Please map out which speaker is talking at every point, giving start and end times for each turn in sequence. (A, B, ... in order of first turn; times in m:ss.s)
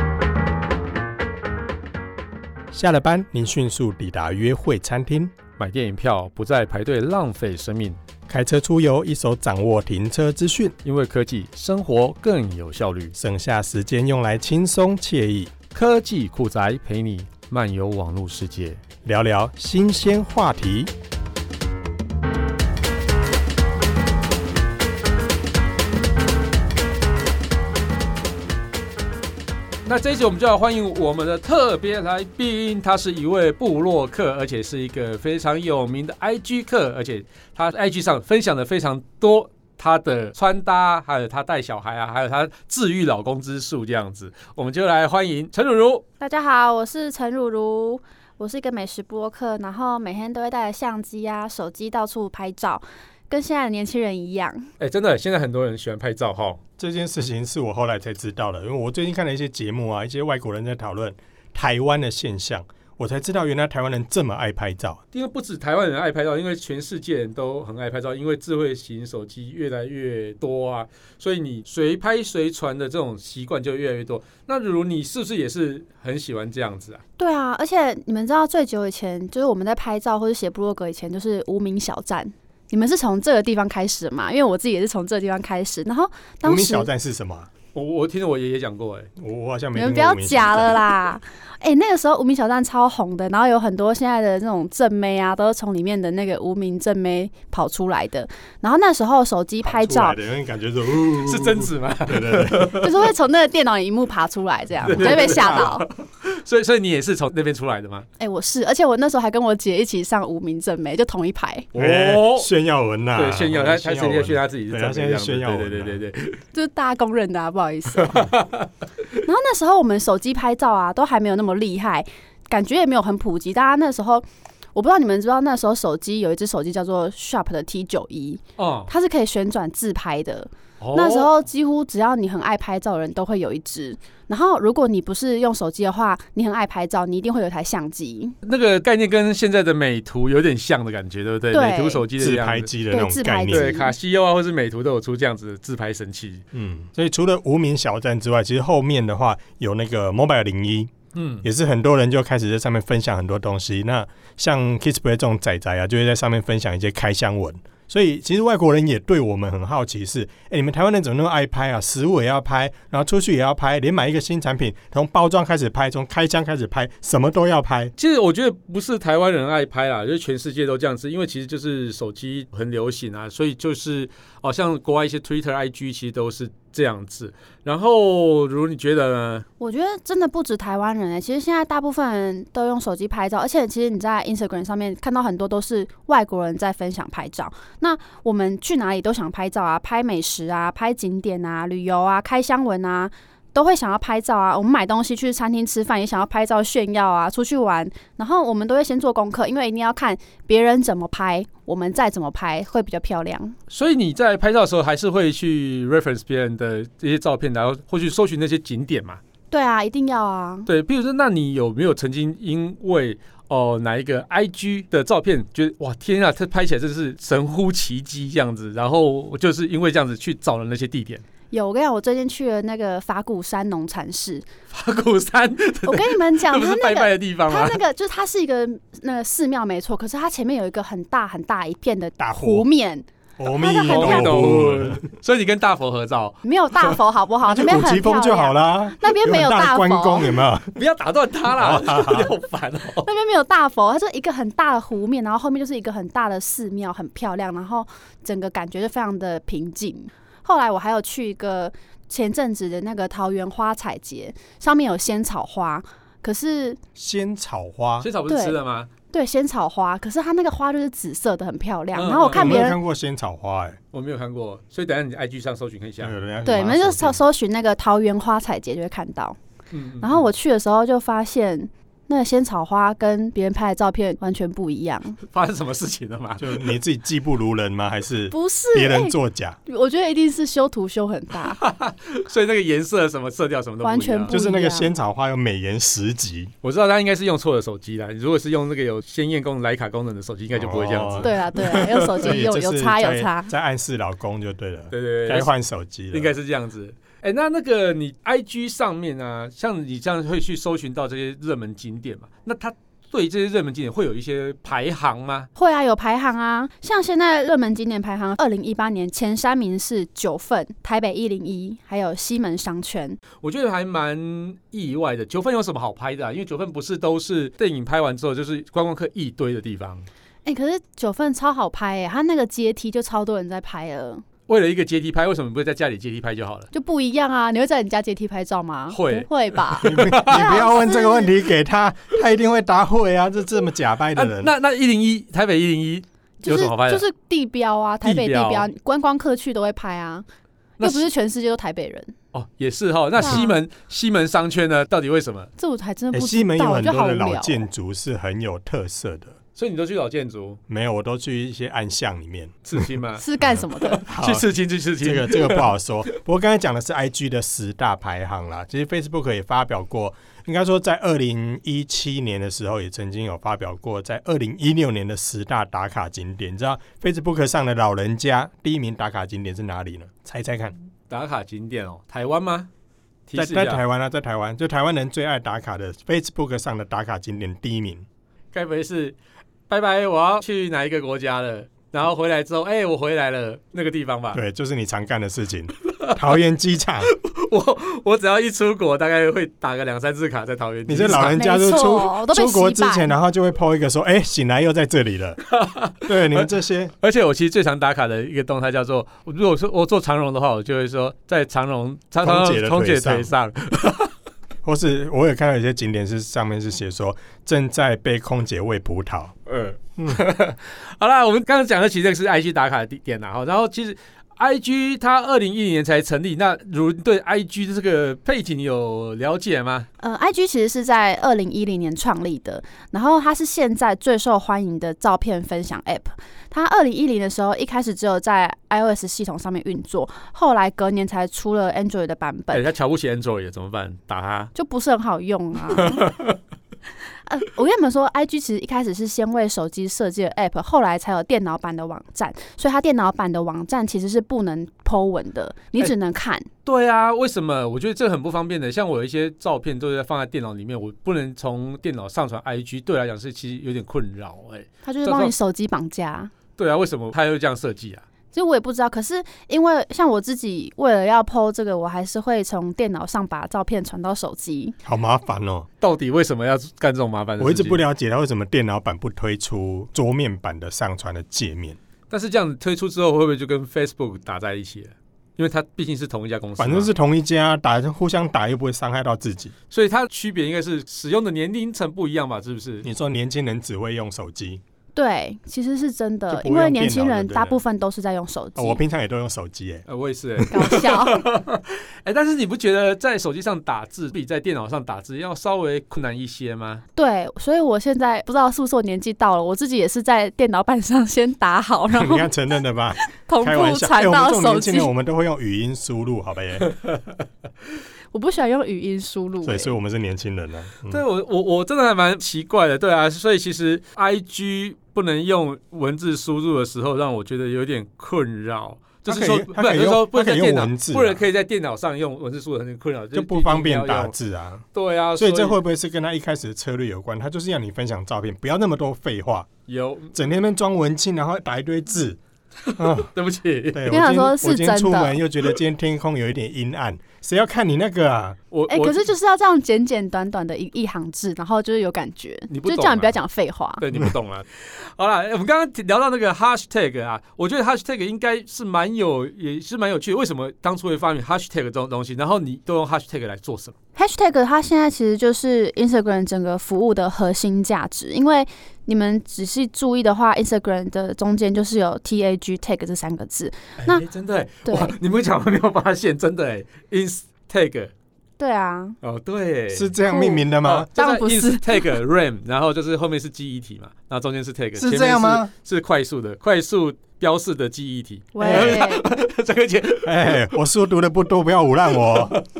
0:02.7-0:05.3 A
0:05.6-0:08.0 B
0:08.3-0:10.7 A
0:10.8-0:13.1 B
0:13.1-0:15.5 A
0:15.7-0:18.8 B
0:19.0-0:20.9 A
0:29.8-0:46.0 B
0:46.2-0:54.7 C
0:54.8-0:56.6 B
0:56.8-1:05.0 A
1:05.1-1:17.0 B
1:17.2-1:26.9 C
1:26.4-1:27.5 A
1:27.7-1:29.1 B
1:29.2-1:30.9 A
1:29.7-1:40.2 C
1:39.6-1:42.9 A
1:41.2-1:42.9 B
1:42.8-1:45.8 C
1:44.8-1:45.6 A
1:44.8-1:48.1 B
1:48.2-1:51.7 C
1:51.7-1:52.5 B
1:51.7-1:56.0 A
1:53.1-1:56.4 B
1:56.5-1:58.3 C
1:58.0-1:58.7 B
1:59.2-2:18.4 C
2:08.6-2:08.9 B
2:10.8-2:11.3 B
2:18.4-2:22.7 B
2:21.5-2:22.0 C
2:22.2-2:23.8 A
2:22.9-2:23.9 C
2:23.5-2:26.4 B
2:26.5-2:47.9 A
2:31.1-2:31.4 B
2:48.0-2:59.4 B
2:59.6-3:23.6 C
3:23.7-3:29.2 B
3:29.5-3:30.7 C
3:30.7-3:41.2 B
3:41.5-3:44.4 C
3:44.7-3:47.8 B
3:45.8-3:54.4 C
3:52.2-3:52.6 A
3:53.4-3:55.0 A
3:53.8-3:56.4 B
3:56.4-4:00.4 C
3:57.5-4:00.7 A
4:00.7-4:03.1 B
4:01.5-4:02.3 A
4:03.0-4:16.8 C
4:16.9-4:18.1 A
4:18.0-4:18.9 B
4:18.3-4:18.6 C
4:19.1-4:22.8 C
4:21.9-4:22.6 B
4:22.3-4:23.8 A
4:23.9-4:26.2 B
4:26.0-4:27.2 A
4:26.4-4:29.4 C
4:29.7-4:30.3 B
4:30.0-4:35.2 C
4:35.3-4:36.6 B
4:36.4-4:39.6 A
4:38.3-4:39.1 C
4:39.6-4:41.6 C
4:41.4-4:44.3 B
4:43.8-4:44.9 C
4:44.3-4:46.5 A
4:46.6-4:52.3 B
4:50.5-4:56.3 A
4:51.2-4:53.5 C
4:54.9-4:55.5 B
4:56.1-5:05.5 B
5:05.6-5:13.2 C
5:13.4-5:20.1 B
5:20.4-5:24.2 C
5:24.5-5:26.7 B
5:26.7-5:31.4 C
5:28.9-5:30.6 B
5:29.8-5:34.5 A
5:34.1-5:37.0 B
5:36.4-5:40.2 C
5:38.0-5:38.7 B
5:40.8-5:41.0 B
5:40.8-5:42.1 C
5:42.3-5:45.5 B
5:43.2-5:43.6 C
5:45.6-5:47.6 C
5:46.1-5:49.4 A
5:49.6-5:50.6 B
5:50.7-5:52.9 A
5:52.6-5:53.2 B
5:53.2-5:54.0 C
5:53.4-5:54.4 A
5:53.8-5:55.7 B
5:55.0-6:10.7 A
6:11.1-6:12.7 B
6:13.3-6:13.8 B
6:13.4-6:18.0 A
6:18.5-6:19.2 B
6:19.7-6:24.4 B
6:24.3-6:27.1 A
6:25.9-6:26.1 B
6:27.1-6:31.4 B
6:30.9-6:35.4 A
6:31.0-6:33.1 C
6:35.4-6:36.5 B
6:36.0-6:36.9 A
6:37.0-6:44.1 B
6:42.2-6:43.3 A
6:44.6-6:49.3 A
6:49.5-6:59.9 B
7:00.0-7:12.7 C
7:12.5-7:14.5 B
7:14.5-7:16.1 C
7:15.7-7:16.4 B
7:17.3-7:26.5 C
7:26.6-7:35.3 B
7:34.8-7:36.3 C
7:36.6-7:38.0 B
7:38.3-7:44.7 C
7:44.8-7:45.7 A
7:45.8-7:47.8 B
7:47.4-7:51.8 A
7:52.1-7:56.9 B
7:56.6-7:59.5 A
7:59.7-8:02.9 B
8:02.8-8:04.6 A
8:04.9-8:08.8 C
8:06.3-8:07.6 A
8:08.6-8:09.8 A
8:09.9-8:16.8 B
8:10.5-8:11.2 C
8:17.0-8:22.3 C
8:21.9-8:26.7 A
8:23.1-8:24.9 C
8:28.1-8:29.7 C
8:29.4-8:31.0 A
8:30.9-8:44.1 B
8:39.1-8:41.2 A
8:43.1-8:49.5 A
8:44.7-8:45.6 B
8:49.7-8:50.1 B
8:50.1-8:52.2 A
8:52.6-8:53.8 B
8:52.8-8:53.1 A
8:53.7-8:58.4 A
8:53.9-8:55.2 C
8:58.5-8:59.0 B
8:58.7-9:03.8 C
9:02.5-9:03.2 B
9:03.8-9:13.7 B
9:14.0-9:24.0 C
9:23.8-9:27.9 B
9:24.6-9:24.9 C
9:28.4-9:29.0 C
9:29.0-9:29.9 B
9:29.7-9:30.9 A
9:30.0-9:32.0 C
9:30.6-9:40.4 B
9:34.8-9:35.5 A
9:38.3-9:39.0 C
9:38.4-9:38.8 A
9:40.0-9:42.4 A
9:42.1-9:42.4 B